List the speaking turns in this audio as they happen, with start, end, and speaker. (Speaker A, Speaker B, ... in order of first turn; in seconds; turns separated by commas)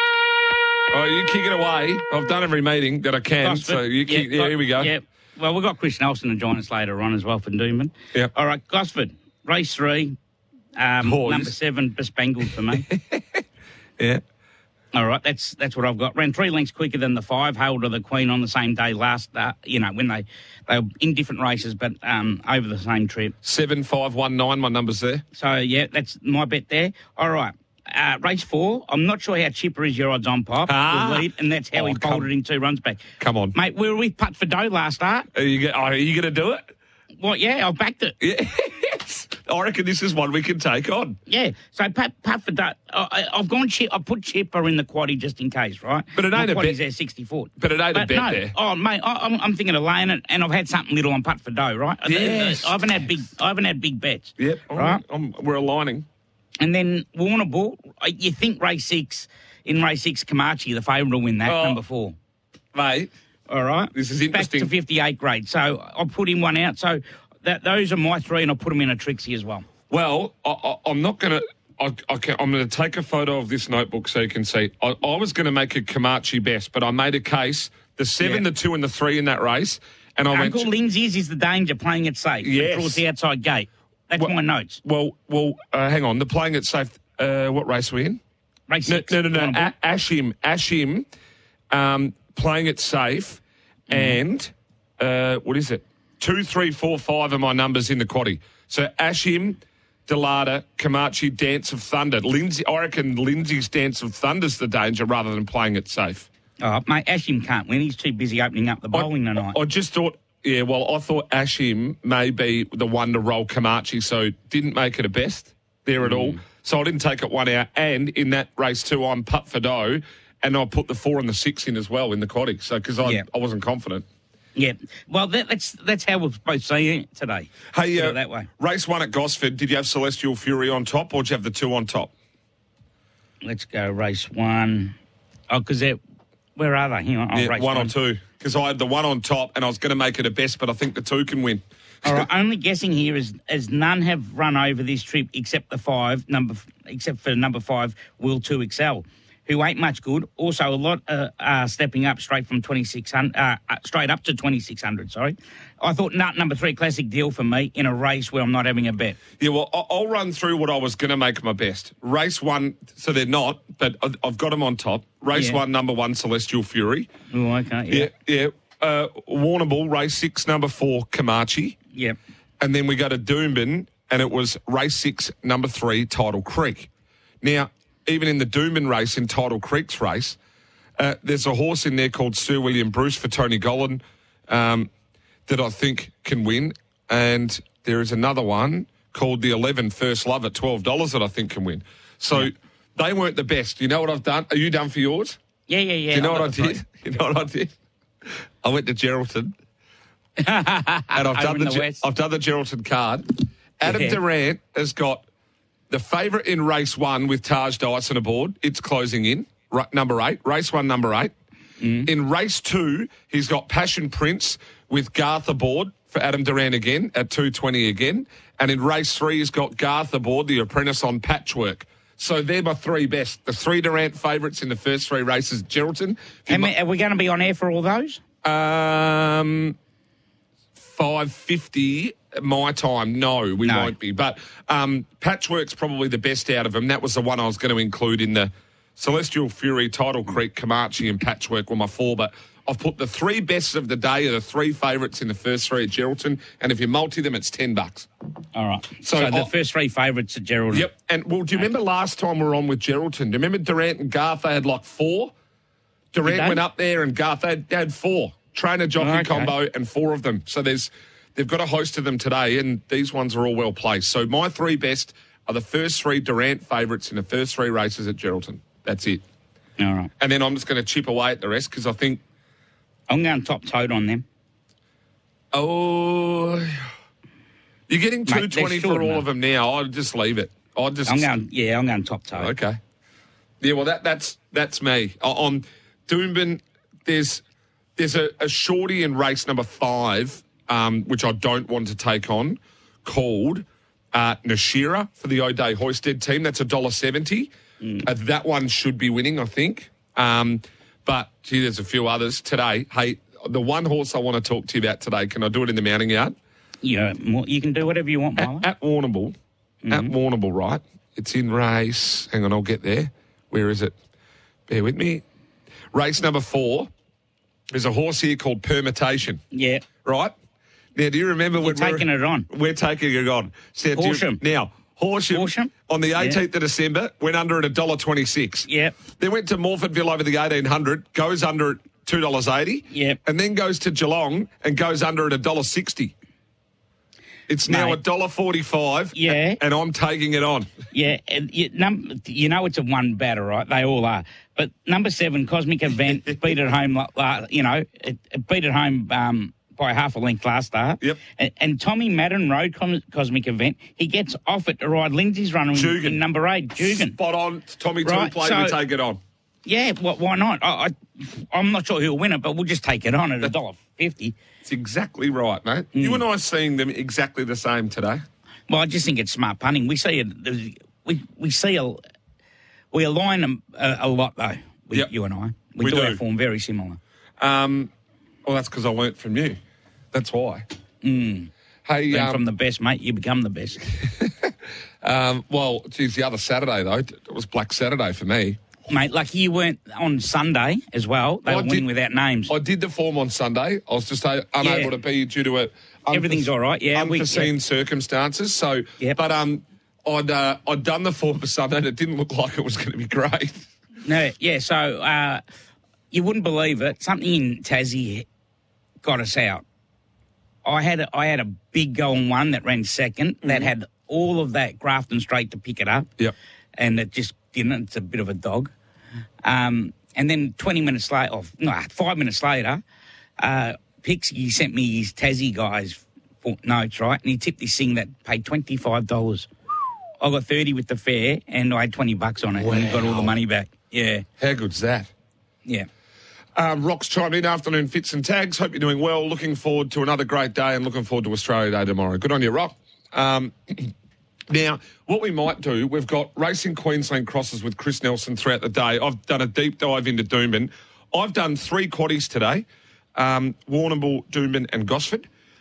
Speaker A: 0.9-4.9, Speaker B: 3.4-10.2, Speaker B: 10.8-12.9, Speaker A: 11.0-11.5, Speaker A: 12.8-13.2, Speaker B: 14.9-23.3, Speaker A: 23.4-25.2, Speaker B: 25.3-35.3, Speaker A: 30.7-32.3, Speaker A: 33.2-33.6, Speaker A: 35.3-36.7, Speaker B: 37.2-38.2, Speaker A: 38.2-41.2, Speaker B: 41.3-55.0, Speaker A: 46.1-46.8, Speaker A: 47.6-48.5, Speaker A: 52.0-52.9, Speaker A: 54.4-56.1, Speaker B: 56.6-62.1, Speaker A: 61.5-61.8, Speaker A: 62.7-63.1, Speaker B: 63.5-69.7, Speaker A: 63.9-64.7, Speaker A: 69.9-80.7, Speaker B: 78.2-78.5, Speaker B: 80.3-84.8, Speaker A: 82.4-83.0, Speaker A: 84.2-88.2, Speaker B: 88.7-89.7, Speaker A: 88.9-91.1, Speaker A: 91.7-106.3, Speaker B: 93.9-94.2, Speaker B: 106.6-109.6, Speaker A: 108.9-124.1, Speaker B: 116.0-116.4, Speaker B: 124.5-128.5, Speaker A: 127.7-132.1, Speaker B: 133.4-135.0, Speaker B: 135.5-136.0, Speaker B: 136.6-137.9, Speaker A: 137.3-142.3, Speaker B: 142.0-159.2, Speaker A: 159.4-167.1, Speaker B: 165.3-165.6, Speaker B: 167.3-168.1, Speaker A: 167.9-171.8, Speaker A: 172.6-176.9, Speaker A: 177.4-180.4, Speaker A: 181.0-184.9, Speaker A: 185.5-195.4, Speaker B: 195.7-196.8, Speaker A: 196.1-197.7, Speaker A: 198.3-199.5, Speaker B: 200.4-202.0, Speaker A: 201.1-205.2, Speaker B: 203.8-204.2, Speaker A: 205.9-211.3, Speaker B: 211.8-212.1, Speaker A: 212.1-226.7, Speaker B: 226.5-228.2, Speaker A: 228.4-229.8, Speaker A: 230.8-248.1, Speaker B: 233.6-233.9, Speaker B: 248.5-250.9, Speaker A: 249.0-249.5, Speaker A: 250.7-255.3, Speaker A: 256.1-269.2, Speaker B: 256.2-256.6, Speaker B: 259.0-259.6, Speaker B: 269.8-270.1, Speaker A: 270.2-272.2, Speaker B: 273.1-274.2, Speaker A: 275.5-276.9, Speaker A: 277.9-281.3, Speaker B: 278.3-279.2, Speaker B: 281.1-282.5, Speaker A: 282.3-282.8, Speaker A: 283.6-287.4, Speaker A: 288.0-297.5, Speaker B: 297.8-298.1, Speaker A: 298.0-306.4, Speaker B: 306.8-308.7, Speaker A: 308.4-309.4, Speaker B: 309.9-310.1, Speaker A: 309.9-313.9, Speaker A: 314.7-315.2, Speaker A: 315.9-316.9, Speaker A: 317.7-319.4, Speaker B: 319.5-319.9, Speaker A: 320.0-320.3, Speaker A: 320.9-336.1, Speaker B: 321.6-322.5, Speaker B: 323.9-324.4, Speaker B: 325.3-326.4, Speaker B: 328.7-329.0, Speaker B: 332.9-333.2, Speaker A: 337.5-340.7, Speaker B: 337.6-338.0, Speaker B: 339.1-339.6, Speaker B: 340.9-357.1, Speaker A: 355.7-356.2, Speaker A: 356.8-359.2, Speaker B: 358.0-358.8, Speaker B: 359.6-364.4, Speaker A: 364.6-368.2, Speaker B: 365.9-366.2, Speaker B: 368.7-372.0, Speaker B: 372.9-377.0, Speaker A: 375.8-376.2, Speaker A: 377.4-377.9, Speaker A: 378.4-379.6, Speaker A: 380.1-380.6, Speaker B: 381.0-381.5, Speaker A: 381.9-382.4, Speaker B: 382.1-383.9, Speaker A: 384.0-388.6, Speaker B: 388.9-392.6, Speaker A: 391.5-391.9, Speaker A: 392.5-403.7, Speaker B: 394.6-394.9, Speaker B: 396.1-397.5, Speaker B: 404.0-405.4, Speaker B: 406.1-408.3, Speaker B: 409.0-409.6, Speaker B: 410.6-416.1, Speaker A: 413.4-413.7, Speaker B: 416.8-418.7, Speaker B: 419.4-422.8, Speaker B: 423.4-429.5, Speaker B: 430.2-434.3, Speaker A: 432.5-433.4, Speaker A: 434.4-435.1, Speaker A: 436.6-443.9, Speaker A: 444.5-452.7, Speaker A: 453.2-455.3